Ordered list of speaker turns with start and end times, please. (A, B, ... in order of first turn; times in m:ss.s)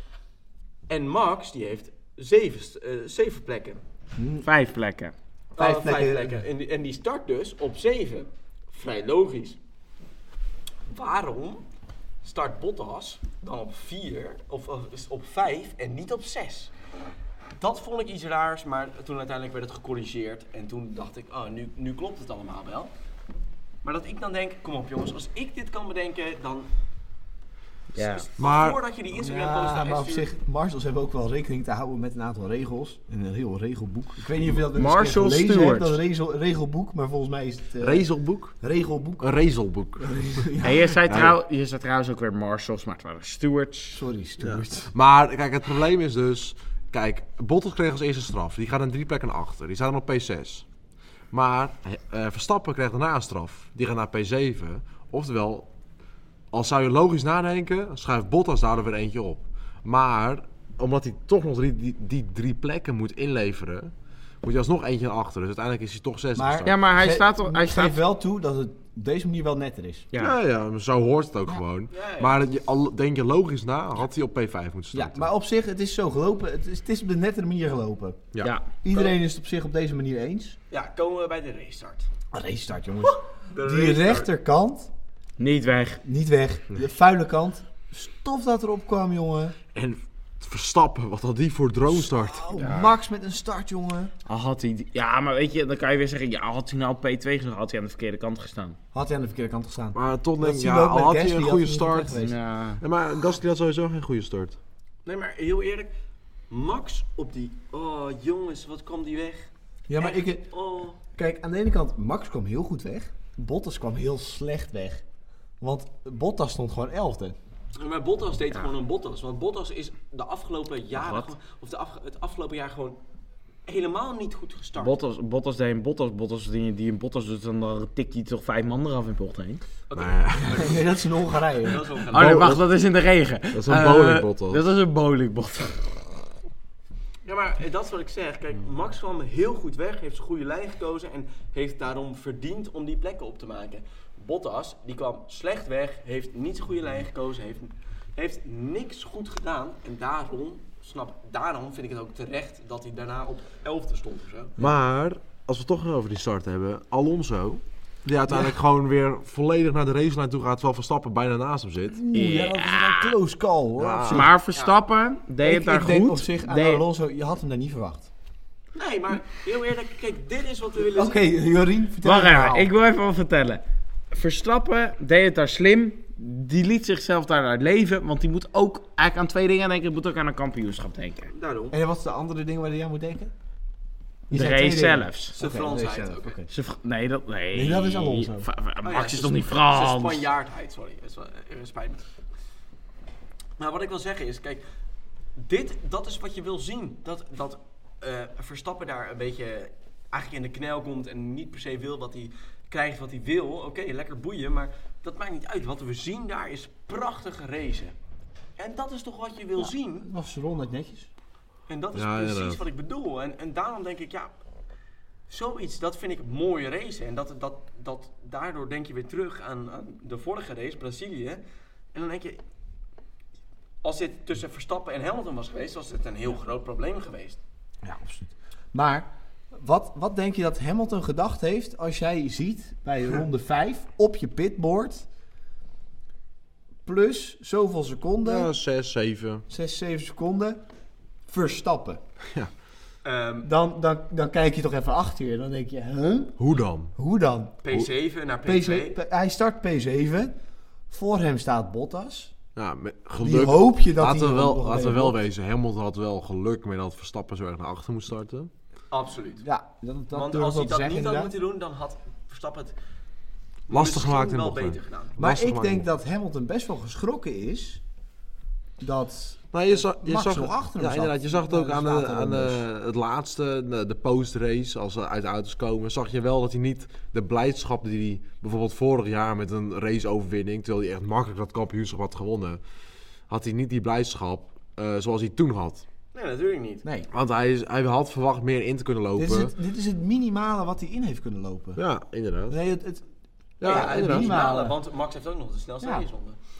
0:00.9-0:03.8 A
0:04.2-0:04.5 B
0:04.4-0:05.1 C
0:05.6-0:06.4 B
0:05.6-0:09.6 A
0:10.9-0:11.6 A
0:12.2-0:16.7 A
0:17.6-0:22.9 A
0:23.8-0:26.7 A
0:27.9-0:28.2 C
0:28.0-0:30.3 A
0:28.4-0:28.8 D
0:29.1-0:39.2 B
0:34.7-0:36.0 C
0:37.8-0:38.5 D
0:39.2-0:40.0 D
0:40.0-0:41.0 B
0:40.6-0:44.0 C
0:41.1-0:41.4 D
0:43.9-0:44.9 B
0:44.4-0:50.6 D
0:51.3-0:55.7 D
0:56.5-1:06.8 D
1:06.3-1:10.1 B
1:06.6-1:08.0 C
1:10.2-1:15.3 D
1:11.9-1:12.4 A
1:14.9-1:18.2 B
1:18.8-1:20.6 B
1:20.7-1:22.1 A
1:22.3-1:24.9 B
1:23.0-1:24.3 A
1:25.4-1:26.0 C
1:26.0-1:29.5 B
1:29.7-1:32.5 D
1:31.9-1:34.1 B
1:32.5-1:32.9 C
1:34.2-1:38.8 C
1:38.9-1:42.4 B
1:39.9-1:42.2 D
1:42.2-1:42.8 C
1:42.8-1:44.6 D
1:45.0-1:45.9 A
1:46.5-1:51.0 A
1:49.9-1:50.4 B
1:51.1-1:55.0 B
1:55.6-1:57.4 B
1:57.8-2:03.0 A
2:00.9-2:01.3 C
2:03.6-2:05.0 A
2:04.8-2:09.6 C
2:09.9-2:10.9 A
2:09.9-2:10.6 D
2:10.5-2:11.9 B
2:11.6-2:12.6 A
2:12.1-2:12.6 D
2:12.1-2:16.0 C
2:13.5-2:14.6 D
2:17.2-2:34.5 A
2:34.6-2:42.0 D
2:41.9-2:44.3 B
2:42.1-2:43.1 C
2:43.8-2:44.3 D
2:44.1-2:46.8 C
2:45.4-2:48.1 B
2:48.7-2:51.2 A
2:50.9-2:52.7 B
2:52.0-3:01.3 C
3:01.3-3:01.8 A
3:01.7-3:03.3 B
3:04.3-3:06.5 B
3:04.3-3:05.3 C
3:05.3-3:06.4 A
3:06.5-3:10.2 C
3:07.5-3:08.5 B
3:08.8-3:12.0 A
3:13.6-3:14.6 A
3:15.4-3:27.9 A
3:28.6-3:30.1 A
3:29.6-3:31.1 B
3:31.7-3:34.3 A
3:31.9-3:32.6 D
3:35.3-3:41.4 A
3:41.9-3:42.4 A
3:43.8-3:47.4 A
3:47.8-3:55.0 B
3:56.8-3:58.5 B
3:58.2-3:59.4 D
3:59.5-4:00.6 B
4:01.3-4:02.0 B
4:03.0-4:03.5 A
4:03.4-4:06.4 B
4:06.4-4:06.9 D
4:07.0-4:07.6 B
4:07.6-4:09.0 A
4:08.4-4:10.3 B
4:10.9-4:12.3 B
4:12.5-4:18.5 D
4:13.2-4:15.2 B
4:18.9-4:19.4 A
4:19.4-4:21.3 B
4:20.1-4:22.7 A
4:23.7-4:25.2 A
4:23.7-4:25.9 D
4:25.2-4:27.8 B
4:28.8-4:32.6 B
4:29.5-4:42.6 D
4:43.3-4:45.8 D
4:46.1-4:46.8 A
4:46.8-4:47.1 B
4:47.1-4:49.5 D
4:49.2-4:51.8 B
4:51.8-4:52.6 D
4:52.5-4:53.0 B
4:53.6-4:54.4 D
4:53.6-4:56.4 A
4:53.6-4:54.8 B